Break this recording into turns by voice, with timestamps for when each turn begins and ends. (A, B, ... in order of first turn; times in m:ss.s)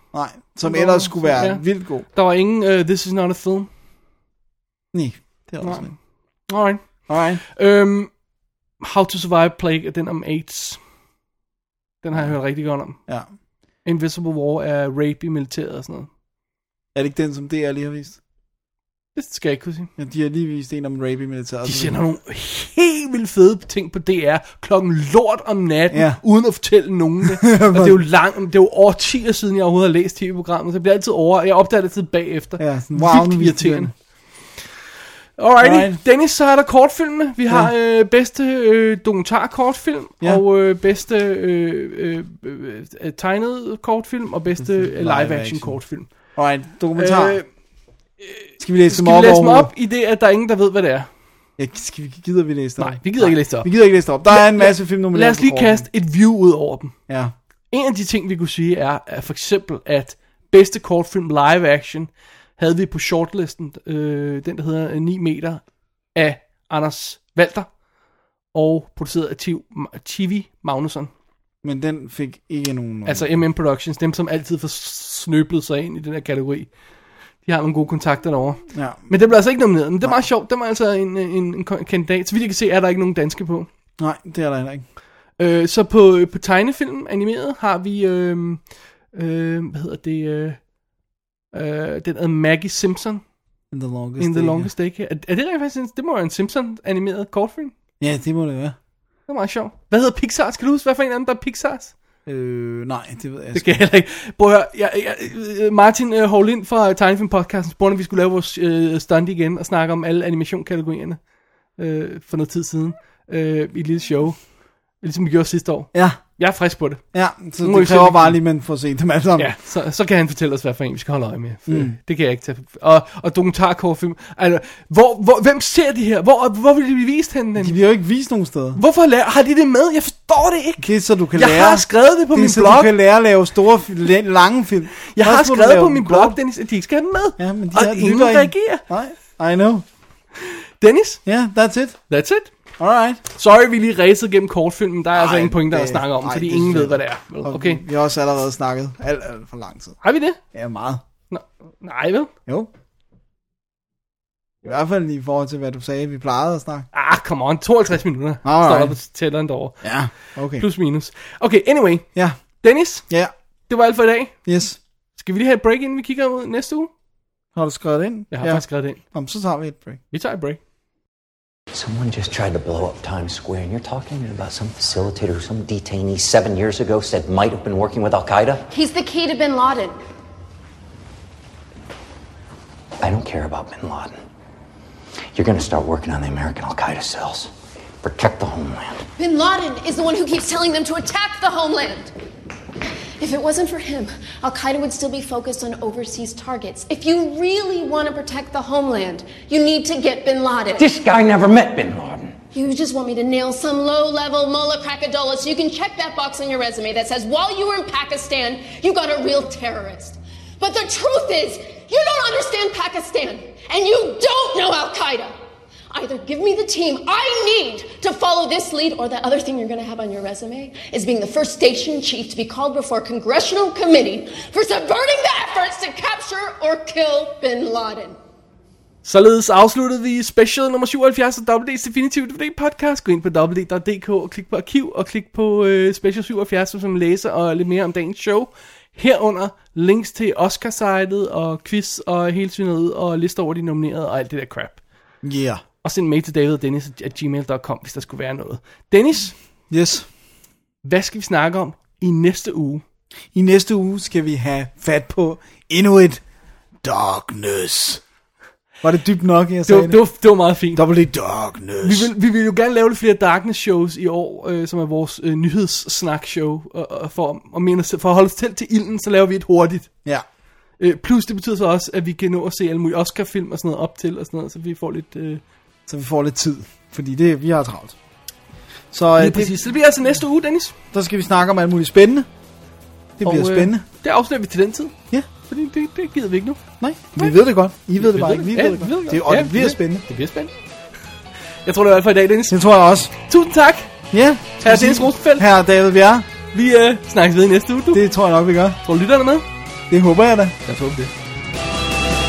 0:00.1-0:02.0 A
0:00.6-0:03.7 B
0:04.9-0:05.9 A
0:05.6-0:05.9 B
0:06.5-0:08.1 B
0:07.1-0:07.4 A
0:08.8-0:10.8 B
0:12.0-0:13.0 B
0:13.8-0:16.1 B
0:16.9-0:18.2 A
0:19.2-0:19.9 B
0:20.0-0:22.0 A
0:21.6-0:33.9 B
0:25.9-0:26.2 A
0:27.3-0:28.0 A
0:32.6-0:33.9 A
0:35.4-0:46.1 B
0:35.6-0:36.0 A
0:44.6-0:45.8 A
0:46.3-0:47.4 A
0:47.0-0:47.4 B
0:48.2-0:51.1 B
0:48.6-0:49.7 A
0:51.6-0:55.8 A
0:52.8-0:53.7 B
0:54.3-0:56.9 B
0:57.7-1:05.6 B
1:06.1-1:07.7 B
1:08.5-1:11.1 B
1:11.6-1:13.4 A
1:13.0-1:16.7 B
1:17.4-1:23.7 B
1:18.7-1:19.1 A
1:24.0-1:24.8 A
1:25.4-1:28.6 B
1:29.1-1:30.6 B
1:31.5-1:33.2 B
1:33.7-1:34.7 A
1:34.2-1:37.7 B
1:38.0-1:38.8 A
1:39.3-1:41.9 B
1:42.2-1:43.7 A
1:43.5-1:51.2 B
1:51.8-1:54.5 B
1:55.0-1:57.0 B
1:55.9-1:56.2 A
1:57.1-1:59.5 A
1:57.6-1:58.4 B
1:59.4-2:07.8 B
2:01.7-2:02.0 A
2:07.6-2:08.8 A
2:08.8-2:10.8 B
2:10.8-2:16.4 A
2:11.3-2:12.9 B
2:15.1-2:18.8 B
2:17.4-2:19.8 A
2:20.4-2:21.2 B
2:21.2-2:22.0 A
2:22.1-2:22.5 B
2:22.8-2:23.2 A
2:23.3-2:27.8 B
2:25.1-2:30.0 A
2:30.0-2:30.4 B
2:30.5-2:31.0 A
2:31.3-2:32.3 B
2:34.6-2:36.9 A
2:36.9-2:39.8 B
2:38.4-2:39.0 A
2:39.8-2:40.6 A
2:40.5-2:42.0 B
2:42.1-2:42.4 A
2:42.6-2:43.0 B
2:43.7-2:44.3 B
2:44.4-2:44.8 A
2:45.2-2:46.9 B
2:47.5-2:50.0 A
2:48.3-2:49.0 B
2:50.1-2:50.6 B
2:51.7-2:58.7 C
2:58.7-3:00.0 D
3:03.0-3:04.2 C
3:05.3-3:07.5 C
3:08.0-3:09.0 C
3:09.2-3:12.1 D
3:13.2-3:20.9 D
3:20.8-3:22.4 C
3:22.5-3:35.3 D
3:35.9-3:48.2 D
3:49.0-4:04.8 B
4:05.2-4:05.6 A
4:05.8-4:09.4 B
4:09.7-4:10.1 A
4:10.8-4:12.8 B
4:13.3-4:16.2 A
4:16.8-4:18.0 A
4:18.8-4:20.0 A
4:19.7-4:20.8 B
4:20.7-4:22.1 A
4:21.8-4:29.9 B
4:30.8-4:35.4 B
4:35.9-4:37.9 A
4:38.9-4:39.6 A
4:39.2-4:40.7 B
4:40.9-4:42.3 A
4:43.2-4:43.8 A
4:43.2-4:44.9 B
4:45.5-4:46.6 B
4:46.8-4:50.0 A
4:48.0-4:50.5 B
4:51.6-4:52.6 B
4:52.5-4:53.1 A
4:53.3-4:53.9 B
4:54.1-4:56.3 A
4:54.6-4:55.4 B
4:56.5-4:58.0 B
4:57.9-4:58.8 A
4:58.8-4:59.4 B
4:59.9-5:00.6 A
5:00.6-5:01.1 B